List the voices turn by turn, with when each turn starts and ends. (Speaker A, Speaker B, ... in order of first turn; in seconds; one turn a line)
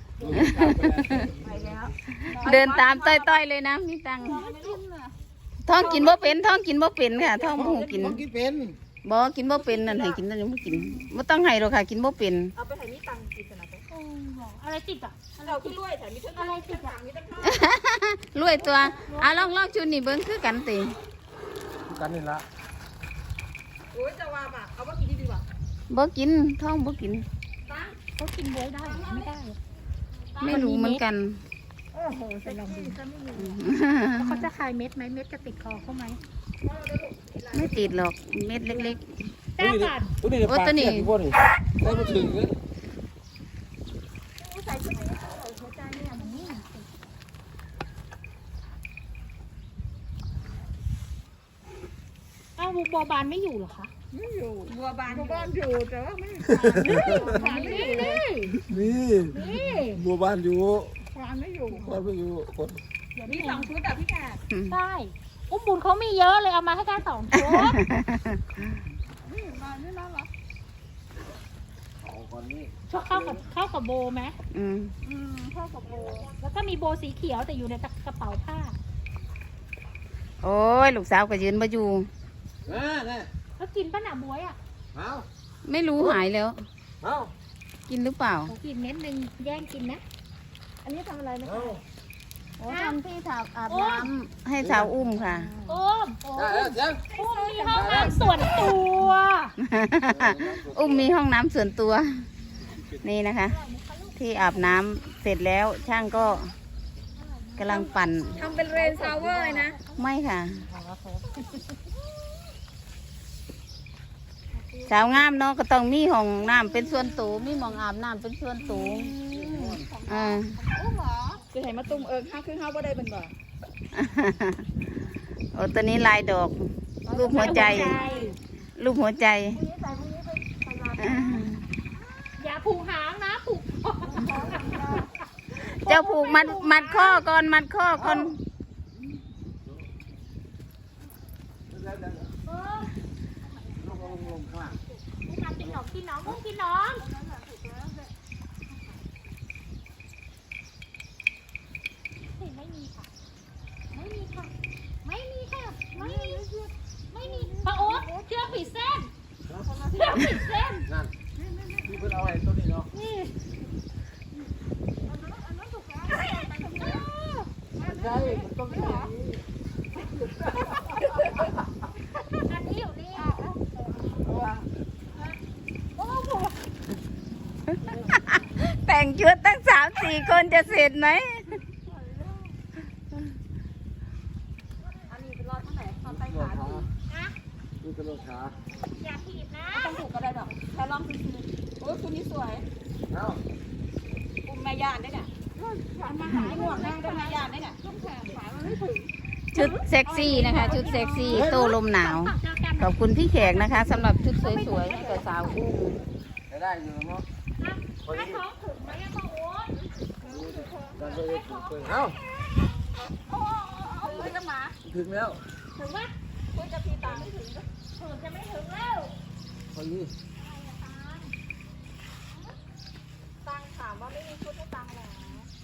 Speaker A: 0.2-1.9
Speaker B: 0.3-1.3
Speaker C: 1.4-3.4
Speaker B: 2.2-4.5
Speaker C: 4.2-5.1
Speaker B: 5.7-8.2
Speaker C: 5.7-6.4
Speaker C: 7.2-7.7
Speaker A: 7.5-8.8
Speaker B: 9.0-12.5
Speaker C: 9.5-11.1
Speaker C: 12.6-13.8
Speaker D: 13.9-15.8
Speaker C: 15.4-17.7
Speaker D: 16.4-17.0
Speaker B: 17.4-20.9
Speaker D: 18.9-19.5
Speaker A: 21.9-22.4
Speaker C: 23.9-25.4
Speaker B: 25.9-27.2
Speaker C: 27.7-27.9
Speaker D: 28.1-29.6
Speaker C: 28.8-29.3
Speaker B: 30.4-31.4
Speaker D: 30.4-31.0
Speaker C: 31.9-33.4
Speaker D: 32.4-33.0
Speaker B: 33.3-34.5
Speaker D: 34.2-36.2
Speaker C: 36.6-38.0
Speaker B: 37.5-39.1
Speaker D: 39.6-40.2
Speaker A: 39.6-42.6
Speaker B: 40.4-41.1
Speaker C: 44.4-46.3
Speaker D: 45.9-46.9
Speaker D: 52.6-53.9
Speaker C: 54.1-58.2
Speaker A: 56.5-57.5
Speaker D: 56.8-58.6
Speaker A: 58.5-61.0
Speaker D: 59.2-60.0
Speaker C: 61.1-62.0
Speaker A: 61.8-62.8
Speaker C: 63.1-64.4
Speaker D: 63.2-63.7
Speaker B: 64.5-64.8
Speaker D: 64.7-67.8
Speaker B: 67.3-68.7
Speaker C: 69.2-70.3
Speaker A: 72.0-72.7
Speaker D: 72.9-74.4
Speaker B: 74.5-74.9
Speaker C: 75.0-76.3
Speaker D: 75.9-78.8
Speaker B: 80.4-82.1
Speaker A: 82.6-83.3
Speaker D: 83.6-84.6
Speaker A: 84.9-85.2
Speaker B: 85.6-86.6
Speaker A: 87.0-87.3
Speaker B: 87.9-88.5
Speaker D: 88.5-90.0
Speaker C: 90.8-91.8
Speaker A: 91.4-91.8
Speaker B: 92.6-95.5
Speaker D: 92.7-93.0
Speaker D: 93.7-94.1
Speaker A: 94.6-94.9
Speaker C: 95.2-95.7
Speaker D: 95.7-99.5
Speaker A: 96.3-97.0
Speaker C: 96.5-98.7
Speaker A: 97.7-98.2
Speaker B: 99.6-102.1
Speaker A: 100.1-101.1
Speaker B: 103.0-103.5
Speaker D: 103.5-104.7
Speaker B: 104.2-106.5
Speaker D: 107.2-110.1
Speaker B: 107.6-108.5
Speaker C: 108.3-109.8
Speaker B: 110.0-110.7
Speaker C: 110.9-111.2
Speaker D: 114.6-115.2
Speaker B: 114.9-119.1
Speaker C: 118.7-123.3
Speaker A: 119.3-119.8
Speaker B: 120.1-120.5
Speaker B: 123.9-124.6
Speaker B: 125.5-128.0
Speaker C: 127.0-128.3
Speaker D: 127.3-128.3
Speaker B: 128.8-129.6
Speaker C: 129.6-131.4
Speaker B: 131.0-131.6
Speaker D: 132.4-137.2
Speaker C: 134.2-135.0
Speaker B: 135.6-138.4
Speaker A: 138.0-138.3
Speaker A: 141.7-142.3
Speaker D: 142.4-147.1
Speaker A: 143.8-144.7
Speaker C: 147.0-148.1
Speaker D: 152.3-153.1
Speaker D: 153.9-154.5
Speaker D: 155.0-156.5
Speaker C: 156.0-156.7
Speaker D: 157.1-159.1
Speaker C: 157.2-158.0
Speaker C: 159.7-160.2
Speaker D: 159.9-160.9
Speaker A: 161.8-162.9
Speaker D: 162.9-163.3
Speaker C: 165.1-167.1
Speaker D: 166.7-167.5
Speaker A: 167.8-169.4
Speaker C: 167.8-169.1
Speaker C: 171.1-171.4
Speaker D: 172.4-173.4
Speaker C: 173.2-173.7
Speaker A: 174.2-174.6
Speaker C: 176.0-176.5
Speaker B: 177.9-181.6
Speaker C: 185.1-186.8
Speaker A: 186.0-186.9
Speaker D: 187.1-187.3
Speaker A: 187.8-188.6
Speaker D: 189.0-189.9
Speaker C: 189.7-192.7
Speaker A: 193.1-193.4
Speaker C: 194.4-201.3
Speaker D: 196.2-197.5
Speaker B: 199.5-206.0
Speaker D: 200.1-205.6
Speaker A: 201.3-201.6
Speaker A: 206.5-207.2
Speaker D: 207.6-209.7
Speaker A: 208.1-208.4
Speaker A: 210.2-212.2
Speaker C: 210.2-211.0
Speaker D: 211.1-211.9
Speaker C: 213.2-214.8
Speaker A: 214.8-215.4
Speaker D: 215.8-216.1
Speaker C: 216.5-217.7
Speaker D: 218.0-219.1
Speaker A: 219.7-220.1
Speaker D: 220.4-221.3
Speaker C: 223.4-225.5